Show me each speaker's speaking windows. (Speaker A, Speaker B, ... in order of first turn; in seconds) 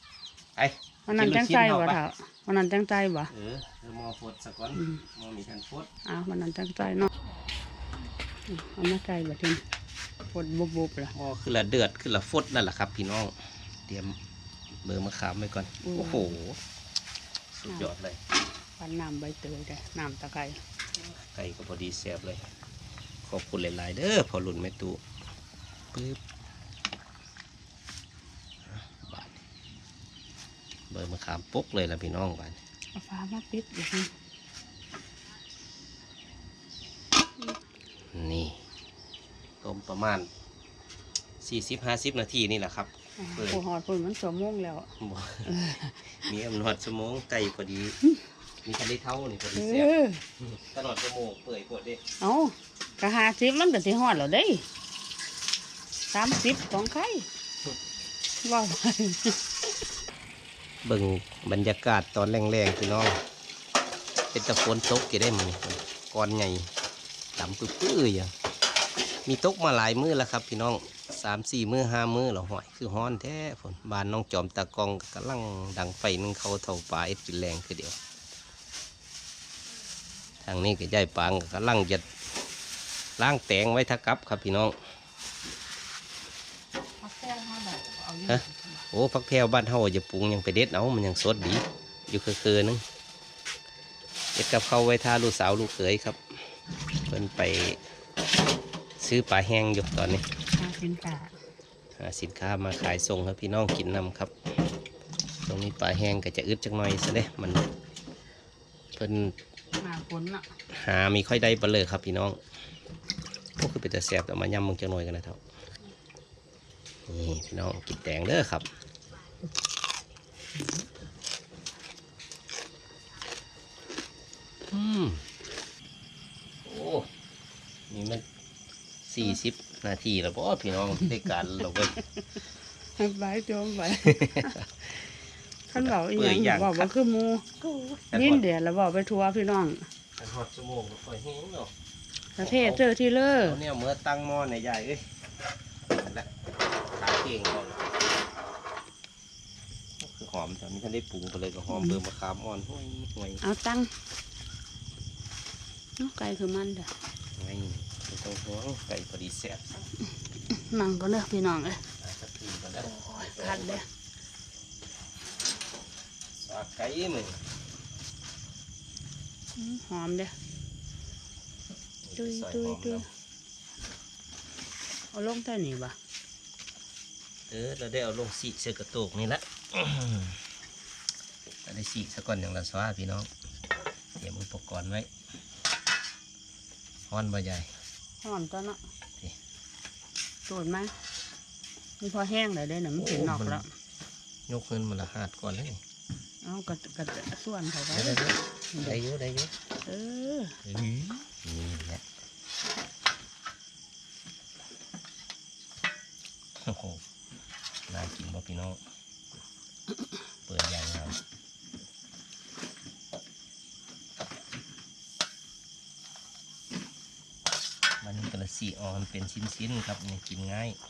Speaker A: 0.6-2.0, 3.3-5.9, 11.1-13.3, 13.8-14.2, 14.8-16.6, 17.5-18.2, 21.3-22.4, 23.2-25.0, 25.9-26.2, 28.7-29.4, 30.9-32.6, 38.1-38.6, 39.6-40.3, 41.4-43.6, 45.0-45.5, 46.2-48.0, 48.6-49.9, 50.5-52.0, 60.8-63.2, 64.3-66.7, 67.3-68.3, 69.2-78.0, 80.4-82.0, 83.2-84.8, 88.3-92.8, 94.3-96.2, 97.1-97.8, 99.0-100.2, 102.0-104.3, 105.4-107.6, 109.0-109.3, 110.7-112.4, 113.6-115.4, 117.1-118.7, 124.7-125.2, 126.6-127.1, 127.9-128.2, 129.0-132.0, 134.0-134.5, 135.7-136.9, 138.1-138.4, 140.2-141.7, 142.4-142.8, 143.4-145.1, 145.9-146.3, 146.9-148.0, 150.0-153.4, 157.4-159.9, 162.0-163.8, 166.4-167.4, 172.0-173.0, 177.5-180.4, 181.7-183.3, 184.2-185.1, 187.1-187.7, 193.0-193.6, 194.5-195.8, 197.9-199.5, 200.6-202.0, 206.6-207.0, 207.9-208.8, 210.5-211.2, 218.0-220.8
Speaker B: 1.1-3.3, 6.0-7.1, 8.5-9.6, 10.3-11.1, 15.8-16.3, 18.8-20.6, 32.9-34.1, 43.2-44.9, 45.5-46.0, 49.5-50.2, 52.2-54.6, 56.1-57.2, 58.4-59.4, 87.0-88.8, 100.6-101.3, 109.8-110.5, 133.0-134.6, 135.7-139.9, 142.4-143.6, 151.7-152.0, 153.4-153.9, 156.0-156.9, 160.5-161.8, 163.0-163.8, 169.6-170.3, 172.2-173.0, 175.1-175.9, 188.2-188.8, 190.5-190.9, 192.0-193.7, 196.4-198.2, 198.7-199.0, 199.8-200.6